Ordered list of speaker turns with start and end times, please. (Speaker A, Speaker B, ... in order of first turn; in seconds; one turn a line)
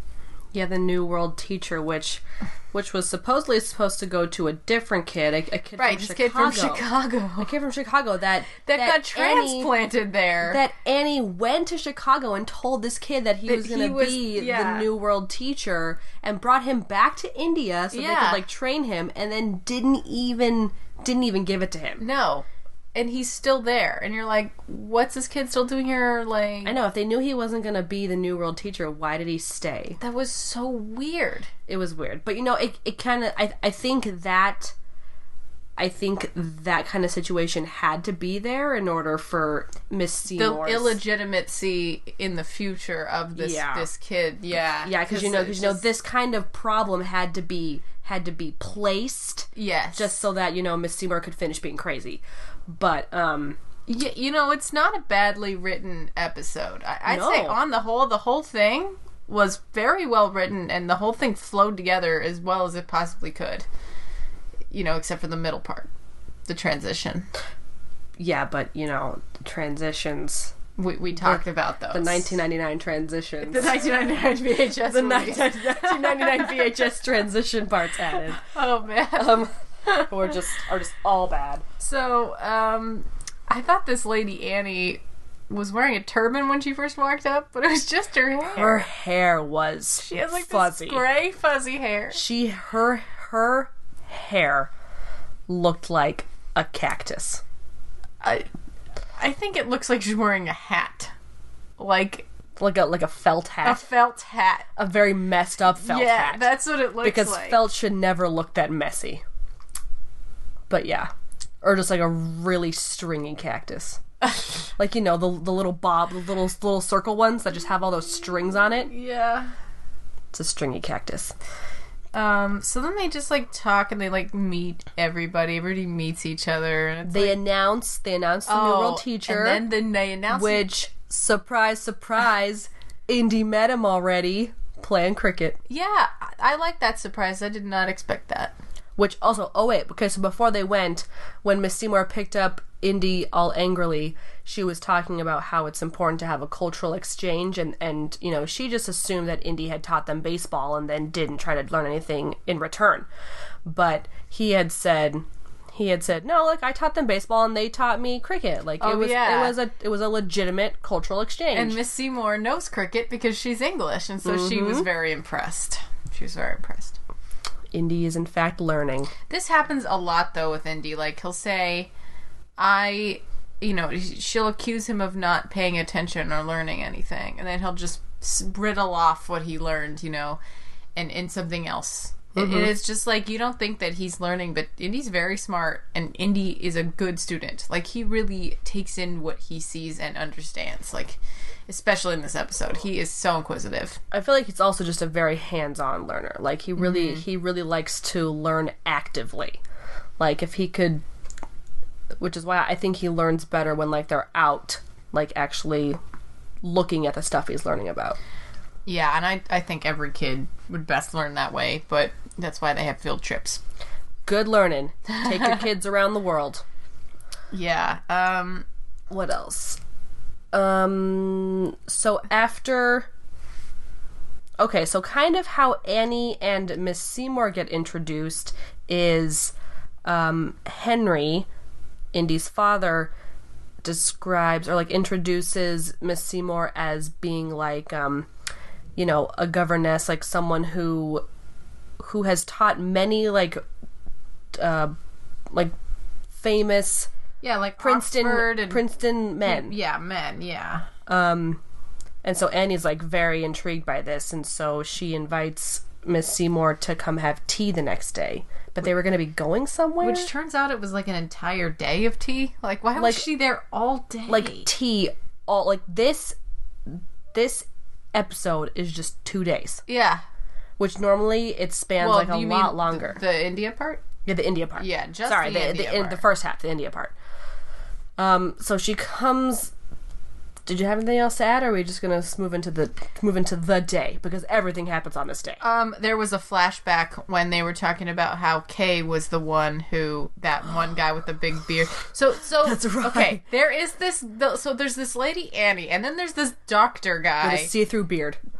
Speaker A: 0.5-6.9
Speaker B: 5.8-7.5
Speaker A: 7.4-9.7
Speaker B: 8.7-10.6
Speaker A: 10.4-22.0
Speaker B: 13.5-14.9
Speaker B: 17.9-18.4
Speaker B: 22.0-26.8
Speaker A: 26.6-30.0
Speaker B: 30.0-31.5
Speaker A: 31.7-34.7
Speaker A: 35.8-41.0
Speaker B: 40.3-45.9
Speaker A: 43.3-43.9
Speaker A: 44.8-53.6
Speaker B: 49.5-50.2
Speaker B: 53.9-63.6
Speaker A: 57.1-57.6
Speaker B: 64.7-65.9
Speaker B: 66.5-67.3
Speaker A: 68.2-70.5
Speaker B: 70.8-72.4
Speaker A: 71.1-73.8
Speaker B: 73.4-76.8
Speaker A: 74.8-78.4
Speaker B: 78.1-80.3
Speaker A: 79.2-81.6
Speaker B: 81.8-88.9
Speaker A: 88.5-91.0
Speaker B: 90.0-92.2
Speaker A: 92.1-94.7
Speaker A: 95.5-97.4
Speaker B: 98.2-98.5
Speaker B: 99.2-101.1
Speaker B: 101.8-102.2
Speaker A: 102.6-103.8
Speaker B: 103.6-104.7
Speaker A: 104.8-109.2
Speaker B: 105.7-107.7
Speaker A: 110.7-111.1
Speaker A: 111.6-114.0
Speaker B: 114.2-114.5
Speaker A: 114.8-118.9
Speaker B: 118.8-119.5
Speaker A: 120.3-121.3
Speaker B: 122.1-127.4
Speaker A: 127.0-129.7
Speaker B: 128.5-130.7
Speaker A: 130.3-135.6
Speaker B: 135.7-138.5
Speaker A: 139.0-153.1
Speaker A: 153.7-161.8
Speaker B: 158.8-159.6
Speaker B: 161.5-167.0
Speaker A: 164.2-164.9
Speaker A: 167.7-169.1
Speaker B: 169.3-171.9
Speaker B: 172.6-180.4
Speaker B: 180.9-194.0
Speaker A: 182.3-182.7
Speaker A: 194.1-199.6
Speaker B: 196.8-197.2
Speaker A: 200.2-201.0
Speaker A: 202.2-206.0
Speaker A: 206.6-208.2
Speaker B: 208.8-213.6
Speaker A: 214.2-216.6
Speaker B: 215.1-215.7
Speaker B: 217.5-218.7
Speaker A: 219.1-219.8
Speaker A: 220.5-223.1
Speaker A: 224.6-229.5
Speaker A: 230.0-231.4
Speaker A: 232.1-233.1
Speaker A: 233.8-238.3
Speaker A: 238.9-241.2
Speaker A: 242.0-243.6
Speaker A: 244.5-244.9
Speaker A: 246.3-247.1
Speaker B: 247.4-248.8
Speaker A: 247.8-249.7
Speaker B: 249.4-250.9
Speaker A: 251.1-251.6
Speaker A: 252.2-260.3
Speaker B: 260.0-264.7
Speaker A: 263.0-263.3
Speaker A: 264.3-266.4
Speaker A: 266.9-269.8
Speaker B: 269.9-270.2
Speaker A: 270.8-273.2
Speaker B: 272.0-274.1
Speaker A: 274.2-277.1
Speaker B: 274.8-276.2
Speaker A: 278.2-279.7
Speaker A: 280.6-285.6
Speaker B: 285.6-297.7
Speaker A: 292.6-293.4
Speaker A: 297.4-298.4